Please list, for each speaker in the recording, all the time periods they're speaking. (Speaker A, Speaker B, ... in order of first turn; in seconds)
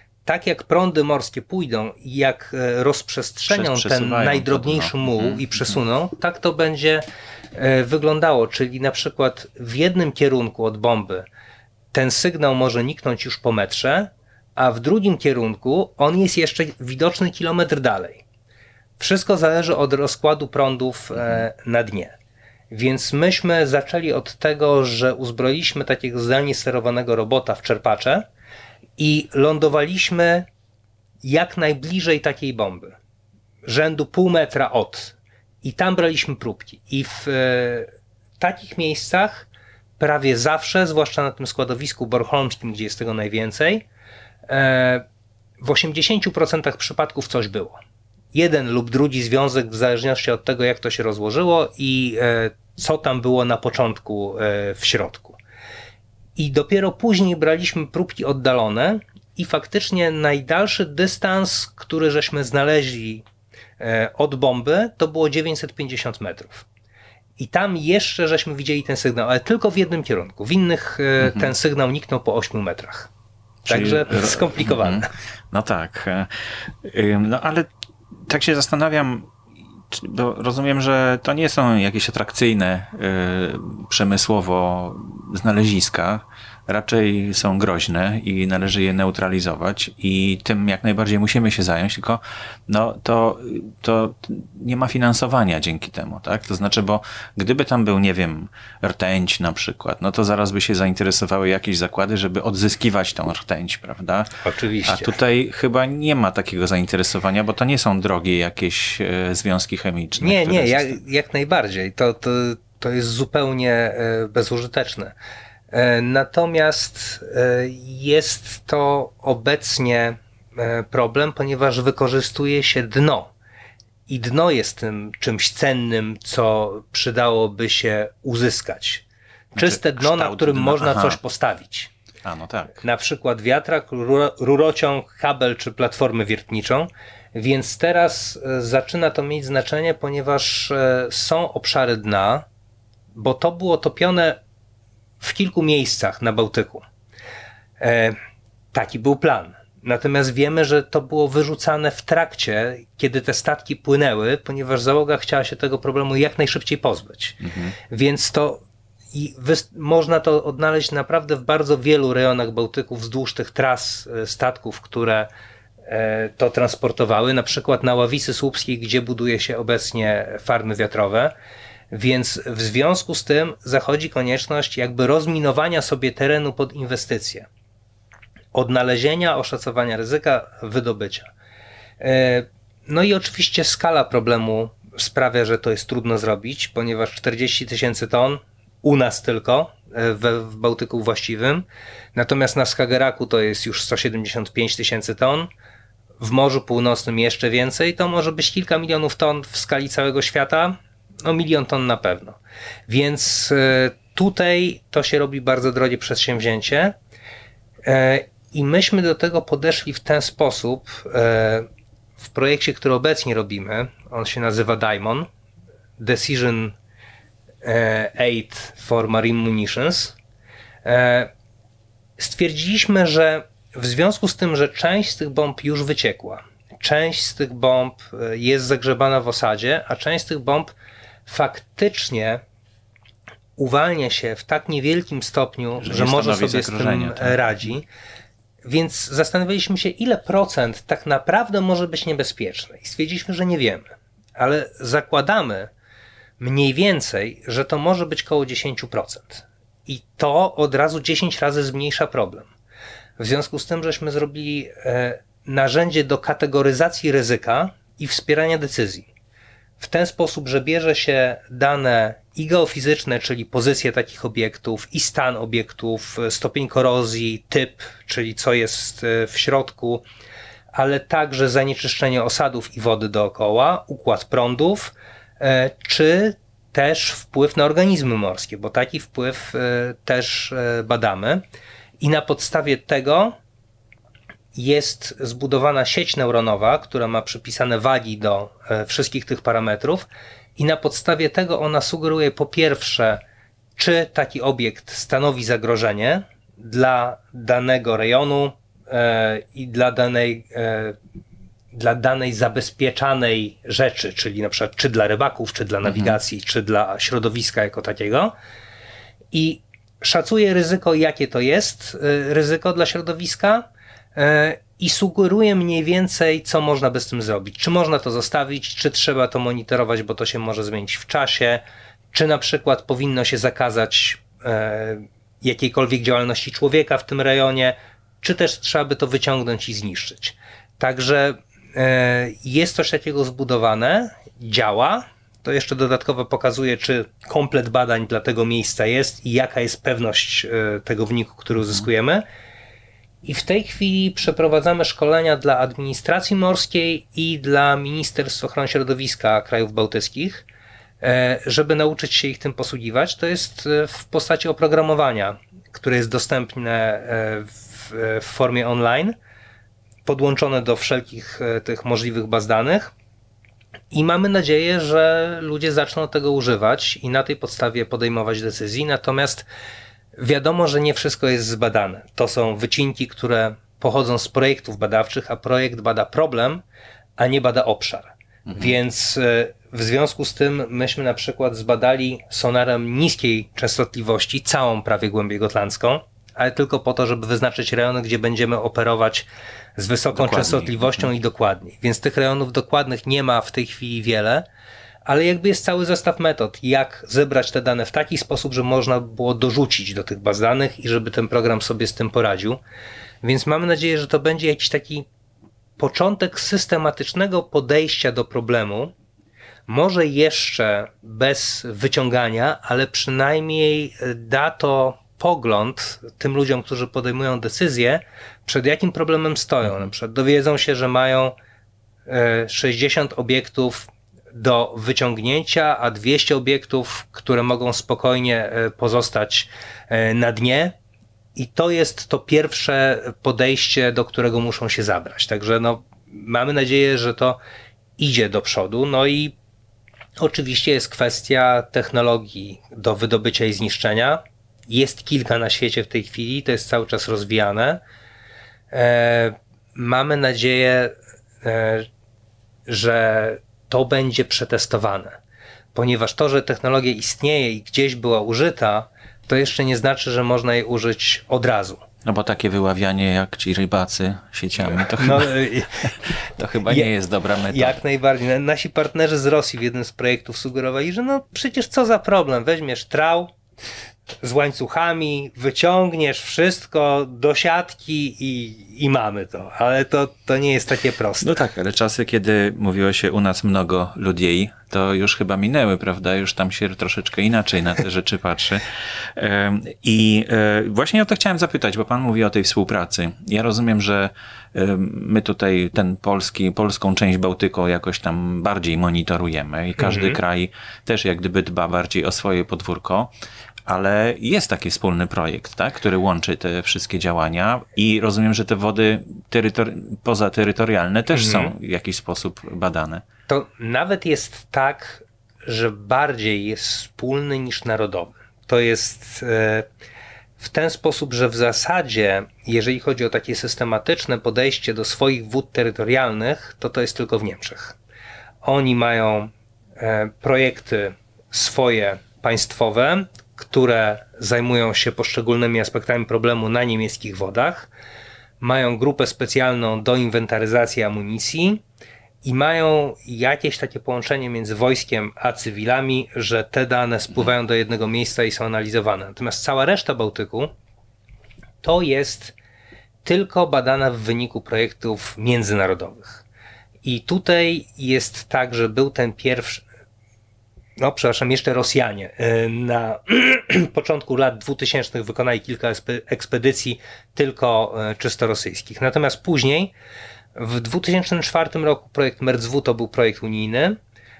Speaker A: 0.2-11.2, 11.9-18.2, 19.0-22.1, 22.7-28.2, 29.0-30.5, 31.2-33.0, 33.6-37.9, 38.4-39.5, 40.0-43.8, 44.5-45.0, 45.6-47.8, 48.3-55.4, 56.4-63.2, 63.8-66.7, 67.4-73.1, 73.7-75.1, 104.4-105.1, 110.2-115.1, 115.7-123.3, 124.1-129.0, 129.6-131.9, 132.8-142.4, 143.1-144.4, 145.2-146.8, 147.8-148.2, 148.7-165.3, 165.9-171.3, 171.9-177.5, 178.5-181.3, 182.0-195.5, 196.2-202.4, 202.9-206.9, 207.8-211.7, 212.2-215.3, 216.0-216.7, 217.6-220.2, 220.8-221.3, 222.2-230.7, 231.3-232.4, 233.6-237.8, 238.6-245.7, 246.4-252.5, 253.2-259.1, 259.8-270.0, 270.7-281.4, 282.0-283.3, 284.5-293.2, 293.8-300.9, 301.7-308.3, 309.3-321.6, 322.1-342.2, 343.2-350.4, 351.0-359.1, 360.1-362.9, 363.9-369.4, 370.2-376.6, 377.2-394.4, 395.0-402.6, 403.2-405.1, 405.8-408.9, 409.7-421.3, 422.1-430.7, 431.4-437.4, 438.0-439.3, 440.2-447.8, 448.7-451.9, 452.7-455.2, 455.7-461.8, 464.7-465.9, 466.6-466.9, 467.5-473.3, 474.2-481.4, 499.8-500.2, 511.1-511.5, 513.3-519.7, 520.4-527.8, 528.4-537.7, 538.4-541.6, 542.2-550.5, 551.6-552.3, 553.0-556.2, 556.8-559.6, 560.8-569.7, 570.4-573.8
Speaker B: 3.5-5.8, 71.2-71.5, 73.6-79.3, 79.9-104.3, 104.8-111.0, 129.5-131.2, 132.2-132.8, 157.4-157.7, 235.8-237.7, 305.8-306.2, 378.5-378.7, 390.1-391.1, 462.0-465.4, 466.0-467.8, 481.2-503.1, 503.7-513.0